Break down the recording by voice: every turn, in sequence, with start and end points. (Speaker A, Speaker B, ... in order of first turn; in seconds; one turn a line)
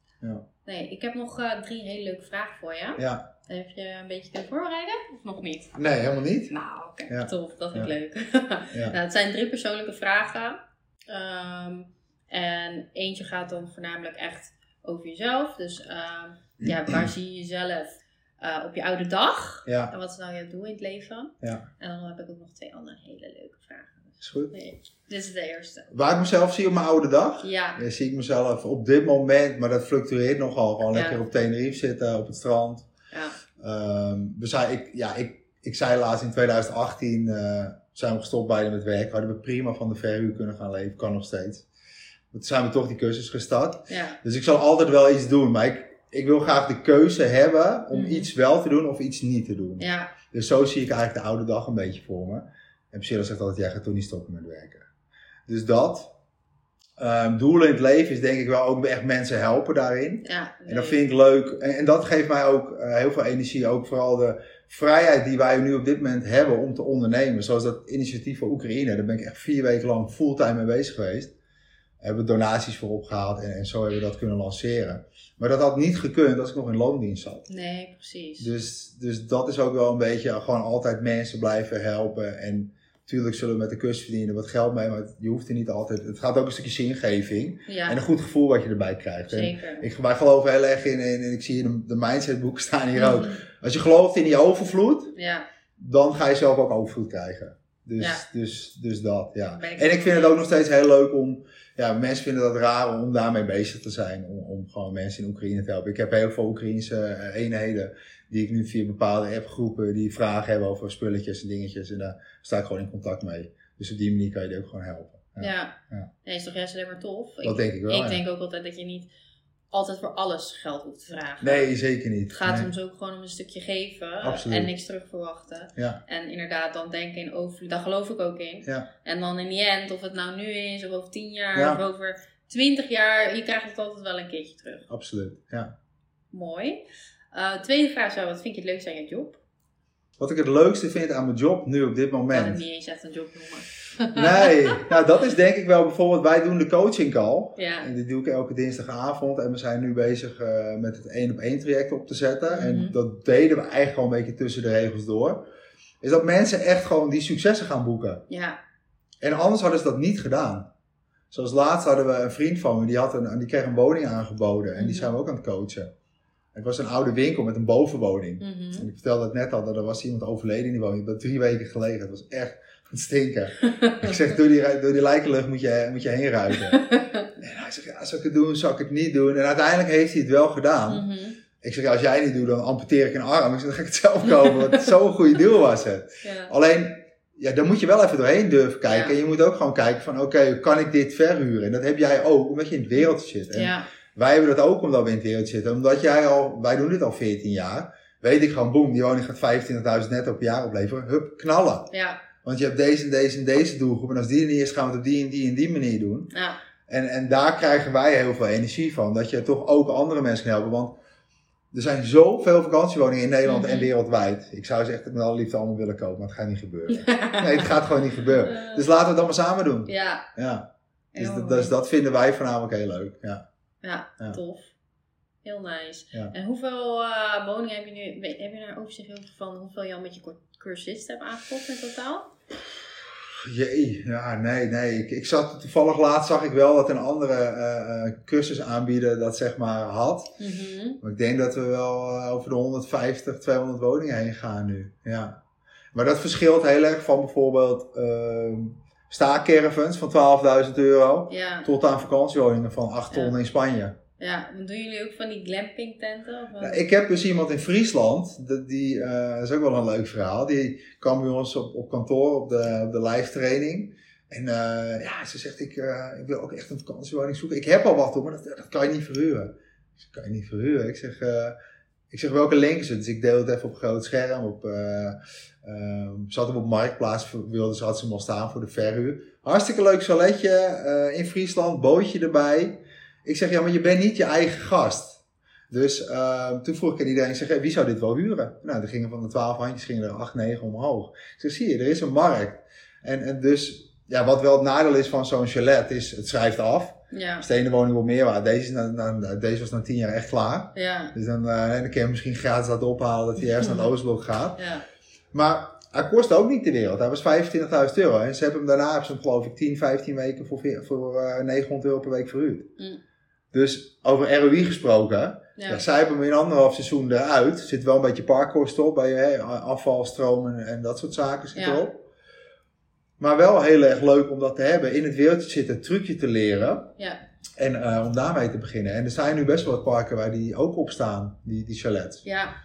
Speaker A: 0.6-5.8
Speaker B: 3.0-3.3
Speaker B: 5.8-6.5
Speaker A: 6.5-25.9
Speaker B: 7.1-7.9
Speaker B: 19.6-19.9
Speaker B: 24.2-24.5
Speaker B: 25.9-32.9
Speaker A: 27.4-27.8
Speaker A: 30.9-31.2
Speaker A: 33.1-33.4
Speaker B: 33.6-41.6
Speaker B: 42.3-54.9
Speaker A: 43.9-44.2
Speaker A: 47.9-48.3
Speaker A: 49.8-50.1
Speaker B: 55.5-56.1
Speaker B: 57.0-71.3
Speaker A: 60.2-61.0
Speaker B: 72.0-77.5
Speaker A: 77.5-78.5
Speaker B: 78.4-95.1
Speaker A: 87.7-88.0
Speaker A: 89.3-89.9
Speaker A: 93.0-93.4
Speaker A: 95.1-95.4
Speaker B: 95.8-116.1
Speaker A: 98.0-98.2
Speaker A: 99.6-100.3
Speaker A: 115.4-119.1
Speaker B: 117.4-118.2
Speaker A: 119.7-121.7
Speaker B: 121.4-122.7
Speaker A: 122.3-134.9
Speaker B: 124.2-124.7
Speaker B: 131.6-131.8
Speaker B: 134.9-135.7
Speaker A: 136.3-139.4
Speaker B: 140.2-142.6
Speaker A: 142.3-144.9
Speaker B: 144.1-155.4
Speaker A: 147.6-147.9
Speaker A: 152.5-152.9
Speaker B: 156.0-158.2
Speaker A: 158.3-158.6
Speaker B: 159.2-160.7
Speaker B: 161.3-165.9
Speaker A: 164.8-165.1
Speaker B: 166.5-176.8
Speaker A: 168.4-168.9
Speaker A: 173.6-174.2
Speaker A: 176.7-177.3
Speaker B: 177.4-181.1
Speaker A: 180.9-181.4
Speaker B: 181.6-206.3
Speaker A: 184.4-184.9
Speaker A: 186.2-186.5
Speaker A: 188.9-189.1
Speaker A: 193.5-193.9
Speaker A: 201.9-202.2
Speaker A: 206.3-206.6
Speaker B: 206.9-211.0
Speaker B: 211.7-223.4
Speaker A: 213.4-213.9
Speaker A: 216.9-217.7
Speaker A: 218.4-218.8
Speaker A: 219.9-220.3
Speaker A: 221.1-221.7
Speaker A: 223.8-224.7
Speaker A: 225.4-232.3
Speaker B: 233.4-240.3
Speaker A: 240.4-241.0
Speaker B: 241.0-245.4
Speaker B: 245.9-254.0
Speaker A: 251.3-251.7
Speaker A: 254.2-256.8
Speaker B: 256.6-269.5
Speaker B: 270.1-271.6
Speaker B: 272.1-304.6
Speaker A: 297.1-297.5
Speaker A: 300.8-301.1
Speaker A: 304.6-304.9
Speaker B: 305.3-312.7
Speaker B: 313.5-322.1
Speaker A: 315.6-315.8
Speaker A: 321.6-321.8
Speaker B: 323.2-326.9
Speaker B: 327.6-332.2
Speaker A: 332.2-332.5